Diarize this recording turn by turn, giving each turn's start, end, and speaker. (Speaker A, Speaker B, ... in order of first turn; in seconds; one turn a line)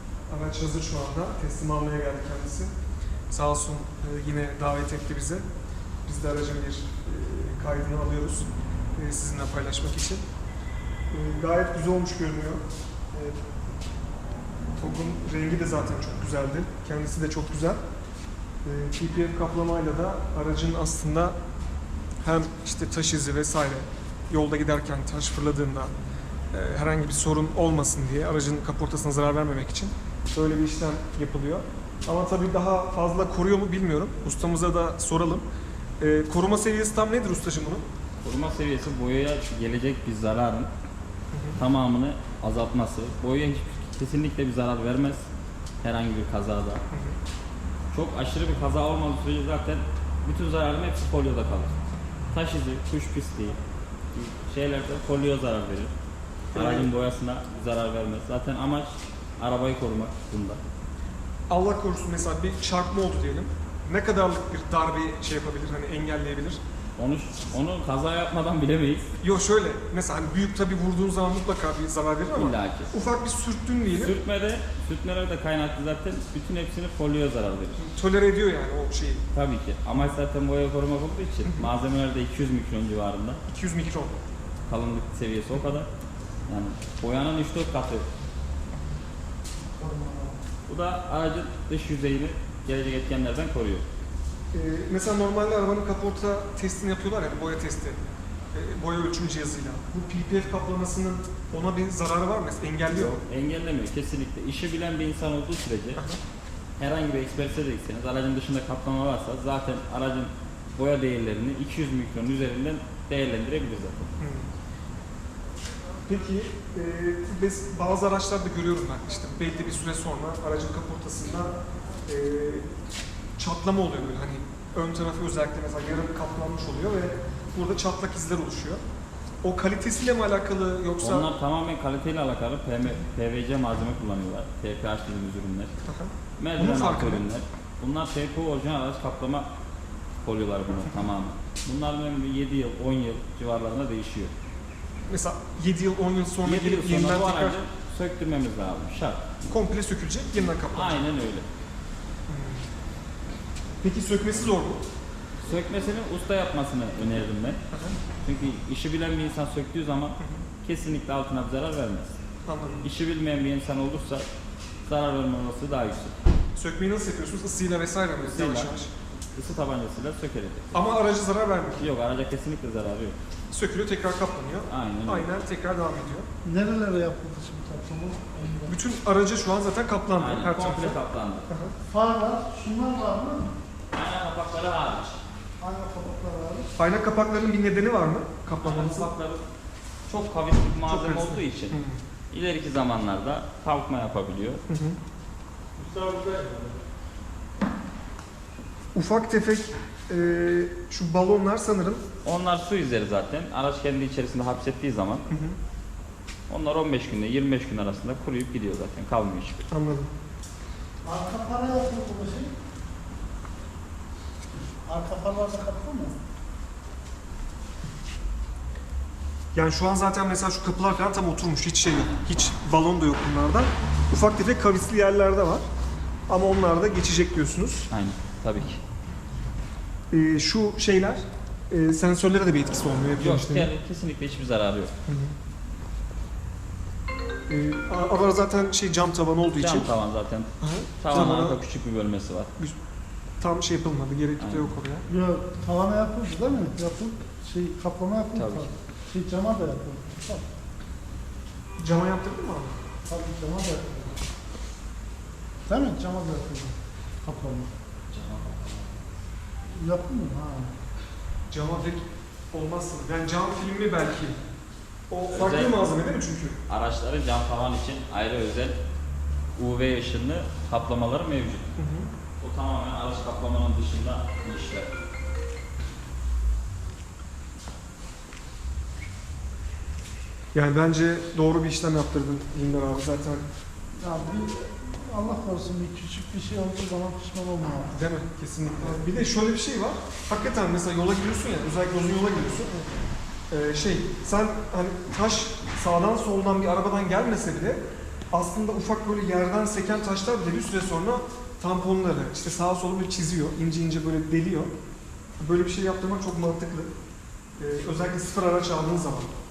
Speaker A: 0.3-2.7
Speaker A: 3.3-5.4
Speaker A: 6.0-10.2
Speaker A: 11.1-13.4
Speaker A: 14.8-17.8
Speaker A: 18.6-21.4
Speaker A: 22.2-25.9
Speaker A: 26.5-35.5
Speaker A: 36.0-37.9
Speaker B: 38.2-40.7
Speaker A: 41.3-41.6
Speaker B: 41.6-45.3
Speaker B: 45.8-46.8
Speaker A: 46.9-47.2
Speaker B: 47.9-51.8
Speaker B: 52.3-53.6
Speaker B: 54.1-55.9
Speaker A: 56.5-56.9
Speaker B: 56.5-60.6
Speaker A: 61.5-66.6
Speaker B: 67.0-69.1
Speaker A: 69.2-74.2
Speaker B: 72.3-72.9
Speaker B: 73.9-77.9
Speaker A: 77.8-79.3
Speaker B: 79.3-83.4
Speaker A: 81.5-81.7
Speaker A: 83.5-84.2
Speaker B: 84.7-85.9
Speaker B: 86.5-88.1
Speaker C: 89.8-90.3
Speaker B: 90.7-93.9
Speaker A: 94.5-98.0
Speaker A: 98.5-103.2
Speaker B: 102.9-106.0
Speaker B: 106.8-114.1
Speaker A: 114.2-114.5
Speaker A: 116.1-122.7
Speaker A: 123.4-128.8
Speaker A: 129.4-131.3
Speaker B: 131.0-135.8
Speaker A: 135.9-137.3
Speaker B: 136.4-139.5
Speaker B: 140.2-144.3
Speaker A: 145.1-147.6
Speaker B: 146.4-149.4
Speaker A: 149.5-151.0
Speaker B: 150.7-151.5
Speaker A: 152.3-152.7
Speaker A: 153.8-154.8
Speaker B: 155.4-157.6
Speaker A: 157.7-158.0
Speaker B: 158.2-162.2
Speaker A: 160.2-160.4
Speaker A: 162.5-162.9
Speaker B: 162.8-164.3
Speaker B: 164.9-166.2
Speaker A: 166.6-168.9
Speaker B: 168.2-168.8
Speaker B: 169.3-170.9
Speaker A: 170.7-171.8
Speaker B: 171.8-173.2
Speaker A: 173.5-176.3
Speaker B: 174.7-175.3
Speaker C: 176.4-178.8
Speaker A: 178.7-181.8
Speaker B: 180.2-181.5
Speaker C: 181.9-183.5
Speaker B: 183.9-185.2
Speaker C: 185.6-186.7
Speaker A: 186.8-189.1
Speaker B: 188.6-189.4
Speaker B: 190.1-191.8
Speaker A: 190.8-192.0
Speaker B: 192.3-194.6
Speaker A: 194.7-195.0
Speaker C: 195.8-196.8
Speaker A: 198.9-202.0
Speaker B: 202.2-205.3
Speaker A: 205.3-205.6
Speaker B: 206.5-209.7
Speaker A: 209.7-210.1
Speaker C: 211.0-212.6
Speaker C: 214.8-216.2
Speaker A: 219.5-225.7
Speaker A: 226.3-227.9
Speaker B: 227.9-228.8
Speaker A: 230.1-233.7
Speaker B: 233.2-234.9
Speaker A: 235.1-235.3
Speaker A: 237.5-239.9
Speaker B: 239.6-242.5
Speaker A: 240.6-241.6
Speaker A: 243.4-245.1
Speaker B: 244.4-244.7
Speaker C: 245.1-250.5
Speaker B: 248.3-248.7
Speaker A: 251.8-252.8
Speaker C: 253.1-254.2
Speaker C: 255.7-257.7
Speaker B: 258.1-259.0
Speaker C: 259.7-260.8
Speaker A: 261.5-264.4
Speaker A: 265.1-266.6
Speaker B: 265.3-265.9
Speaker B: 266.7-268.8
Speaker B: 269.6-271.8
Speaker A: 271.8-272.1
Speaker B: 272.4-274.9
Speaker A: 280.5-283.5
Speaker C: 284.0-287.9
Speaker A: 287.9-292.8
Speaker A: 293.5-304.7
Speaker A: 305.4-306.9
Speaker A: 307.6-309.3